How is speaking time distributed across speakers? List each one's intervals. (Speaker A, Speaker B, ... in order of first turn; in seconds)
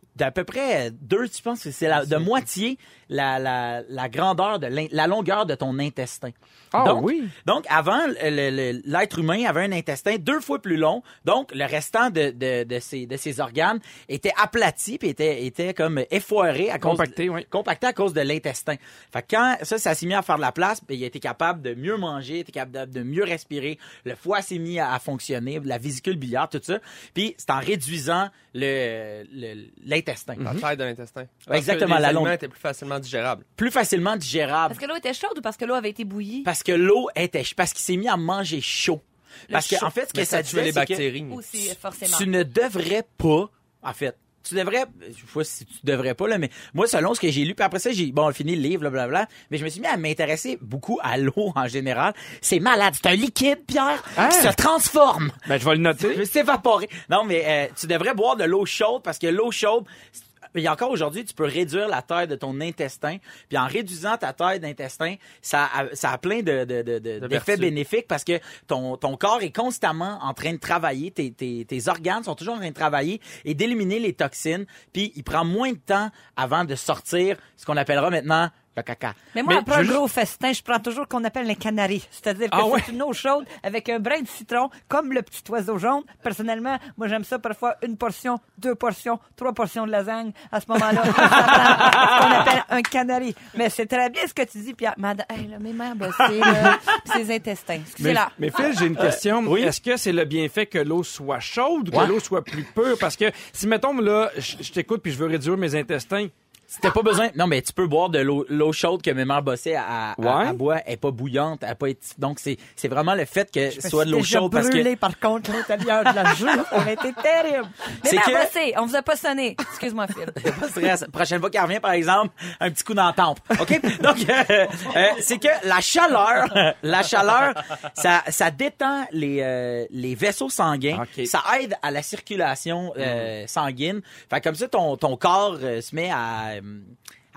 Speaker A: 0.1-30.6, 31.5-32.3, 33.6-34.8, 36.4-41.0, 42.0-55.4, 56.0-79.2, 99.0-99.7, 101.9-102.2, 106.7-114.9, 118.0-118.5, 120.4-136.9
Speaker B: 6.7-7.3, 16.8-17.5, 30.4-30.6, 54.1-54.5, 55.5-56.2, 79.5-80.0, 82.5-82.9, 91.2-92.0, 98.0-106.3, 110.2-110.6, 130.9-131.3
Speaker C: 30.4-33.4, 40.1-41.7, 67.2-67.7
Speaker D: 34.7-36.5, 39.5-39.9, 41.3-42.3, 95.1-97.4, 97.9-98.3, 118.0-120.3
Speaker E: 79.3-95.2, 96.7-97.9, 113.7-117.9